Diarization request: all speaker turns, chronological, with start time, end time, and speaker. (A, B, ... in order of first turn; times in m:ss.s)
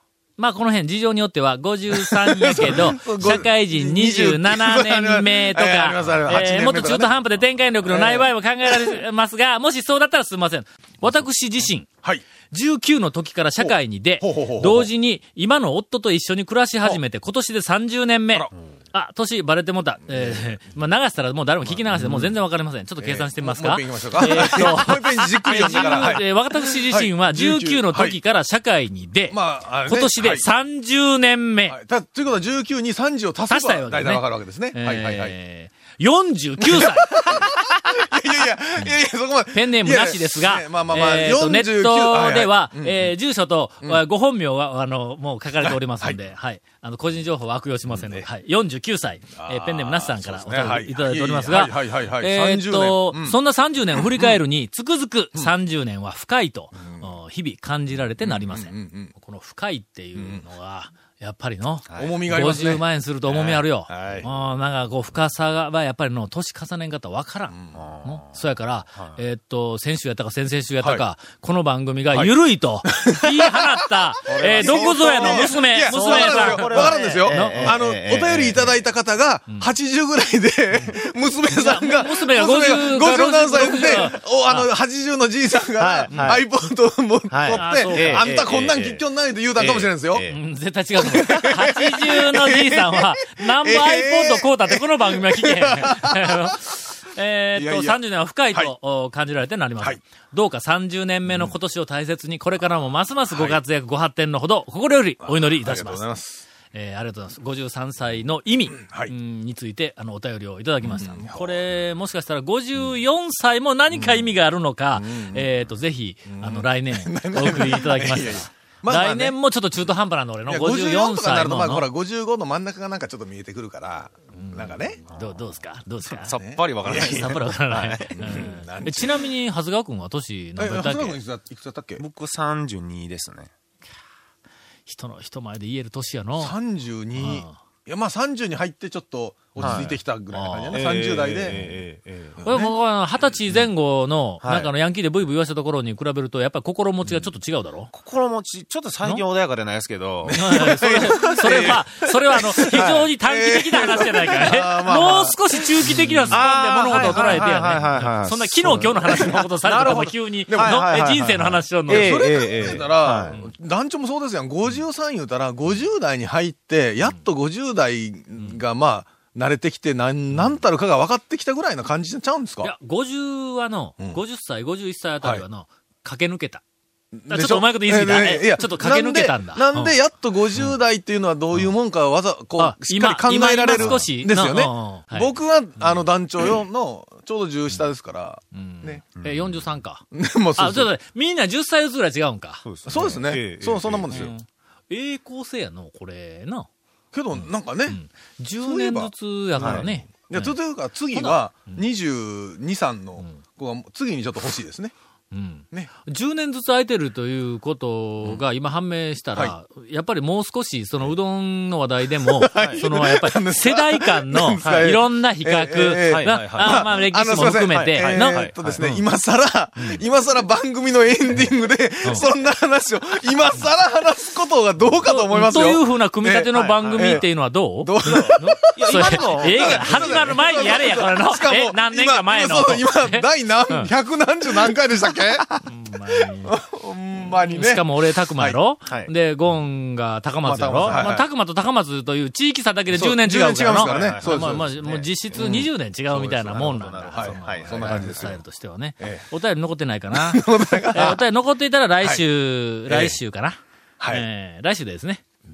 0:00.4-0:11.9 A
0:01.9-0:07.1 B
0:07.8-0:09.0 B
0:12.5-0:31.8 A
0:13.6-0:14.9 B
0:20.1-0:20.5 B
0:21.8-0:22.3 B
0:23.0-0:28.2 B
0:29.3-0:30.4 B
0:31.7-0:35.3 B
0:33.5-0:37.5 A
0:36.6-0:43.1 B
0:39.5-1:17.8 A
0:45.6-0:46.2 B
0:47.9-0:48.2 B
0:49.3-0:53.4 B
0:53.9-0:54.4 B
0:56.8-0:57.1 B
0:58.2-0:59.1 B
1:00.2-1:00.4 B
1:01.9-1:02.2 C
1:02.0-1:04.2 B
1:03.9-1:04.3 C
1:07.5-1:07.8 B
1:07.8-1:08.4 C
1:12.8-1:13.7 B
1:14.3-1:18.7 C
1:14.3-1:30.2 B
1:21.5-1:24.6 A
1:25.8-1:26.4 C
1:27.3-1:29.0 C
1:27.5-1:28.3 A
1:29.6-1:30.4 C
1:30.3-1:46.0 A
1:31.0-1:36.6 B
1:37.5-1:38.0 B
1:43.3-1:43.6 B
1:45.2-1:46.4 B
1:46.7-2:01.9 A
1:48.7-1:49.1 B
1:50.8-1:51.6 B
1:53.9-1:54.3 B
1:54.9-1:55.5 B
1:56.3-1:59.4 B
2:00.5-2:05.0 B
2:04.3-2:11.2 A
2:06.1-2:08.4 C
2:06.4-2:07.4 B
2:08.1-2:09.3 B
2:10.6-2:12.0 B
2:12.0-2:13.5 C
2:14.9-2:16.5 A
2:16.4-2:21.6 B
2:17.2-2:17.6 A
2:19.6-2:20.8 A
2:19.6-2:19.9 C
2:20.7-2:22.4 C
2:22.4-2:22.7 B
2:22.4-2:27.9 A
2:24.4-2:24.7 C
2:27.9-2:31.8 C
2:30.2-2:37.4 B
2:30.3-2:42.3 A
2:32.7-2:33.0 C
2:36.3-2:43.4 C
2:39.1-2:39.9 B
2:40.5-2:40.8 B
2:41.9-2:52.7 B
2:52.6-2:56.6 A
2:57.2-3:09.0 B
2:57.3-2:59.9 A
3:02.6-3:05.3 A
3:03.7-3:04.0 C
3:08.5-3:10.0 A
3:09.2-3:09.6 C
3:10.1-3:10.9 B
3:10.6-3:12.6 A
3:12.6-3:14.3 C
3:12.8-3:14.3 B
3:14.1-3:16.7 A
3:17.1-3:18.0 B
3:17.9-3:20.5 A
3:18.6-3:24.9 B
3:19.6-3:19.8 C
3:21.1-3:21.8 A
3:25.3-3:39.0 A
3:32.2-3:47.3 B
3:36.1-3:36.9 C
3:37.7-3:38.6 C
3:45.0-3:53.9 A
3:46.8-3:47.2 C
3:47.8-3:55.6 B
3:48.1-3:50.4 C
3:55.6-3:56.5 A
3:56.4-3:58.6 B
3:57.5-4:13.6 A
3:58.8-3:59.1 C
4:00.4-4:01.2 B
4:00.8-4:01.1 C
4:02.9-4:04.7 B
4:03.8-4:08.4 C
4:05.3-4:05.7 B
4:07.1-4:08.4 B
4:10.1-4:11.2 B
4:12.9-4:13.2 B
4:14.0-4:14.2 B
4:14.1-4:15.2 A